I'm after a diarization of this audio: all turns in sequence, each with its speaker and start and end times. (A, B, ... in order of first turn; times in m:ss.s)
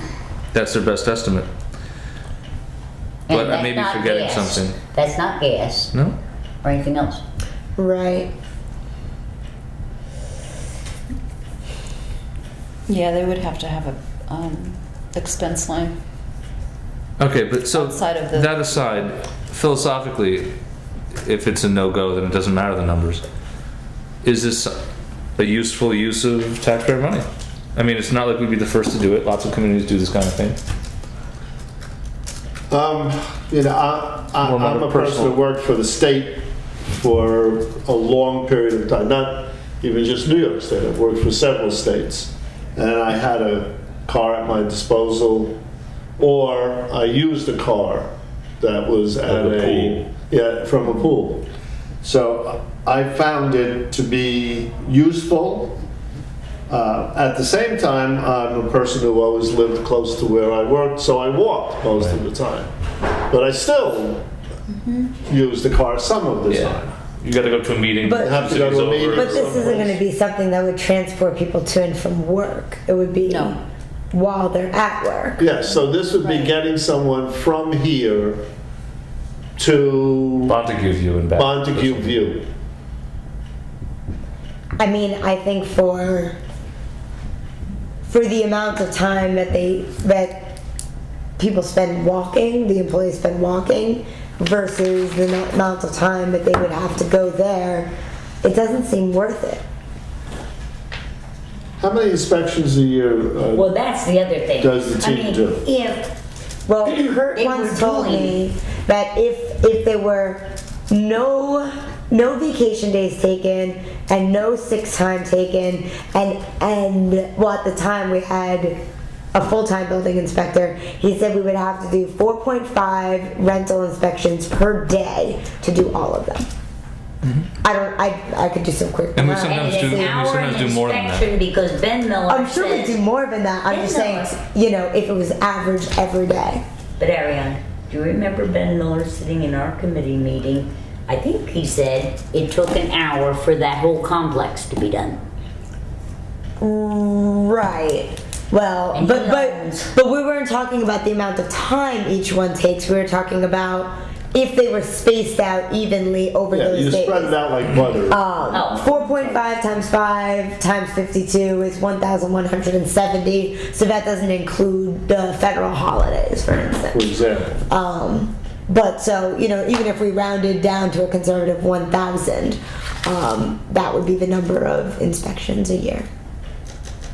0:00.5-0:01.5 A
0:03.3-0:05.9 B
0:03.3-0:04.8 A
0:06.6-0:07.2 B
0:07.8-0:08.3 C
0:12.9-0:15.9 D
0:17.2-0:20.5 A
0:17.7-0:18.5 D
0:21.2-0:23.2 A
0:24.2-0:24.8 A
0:25.4-0:30.6 A
0:32.7-0:45.6 E
0:34.4-0:35.4 A
0:46.2-0:51.5 E
0:49.3-0:50.0 A
0:52.0-0:55.8 E
0:56.7-1:02.7 E
1:03.3-1:04.3 E
1:05.2-1:06.9 E
1:06.5-1:09.8 A
1:08.0-1:15.6 C
1:08.2-1:10.0 E
1:13.2-1:13.6 D
1:15.4-1:18.4 E
1:16.1-1:16.4 D
1:19.6-1:20.6 E
1:20.5-1:22.2 A
1:21.3-1:22.5 E
1:24.8-1:26.4 C
1:28.1-1:30.5 C
1:31.4-1:37.9 C
1:38.4-1:39.6 C
1:41.8-1:43.7 E
1:43.5-1:45.5 B
1:44.6-1:45.6 E
1:45.6-1:46.1 C
1:46.6-1:58.8 C
1:47.3-1:48.4 B
1:59.3-2:06.4 C
2:07.2-2:07.5 A
2:07.6-2:10.1 C
2:09.1-2:11.3 A
2:09.4-2:13.0 B
2:12.3-2:16.6 C
2:13.7-2:14.3 B
2:17.0-2:25.2 B
2:26.6-2:37.4 C
2:28.9-2:29.9 B
2:36.5-2:39.5 E
2:38.1-2:47.1 C
2:38.5-2:38.8 B
2:46.9-2:47.6 E
2:47.7-2:56.1 C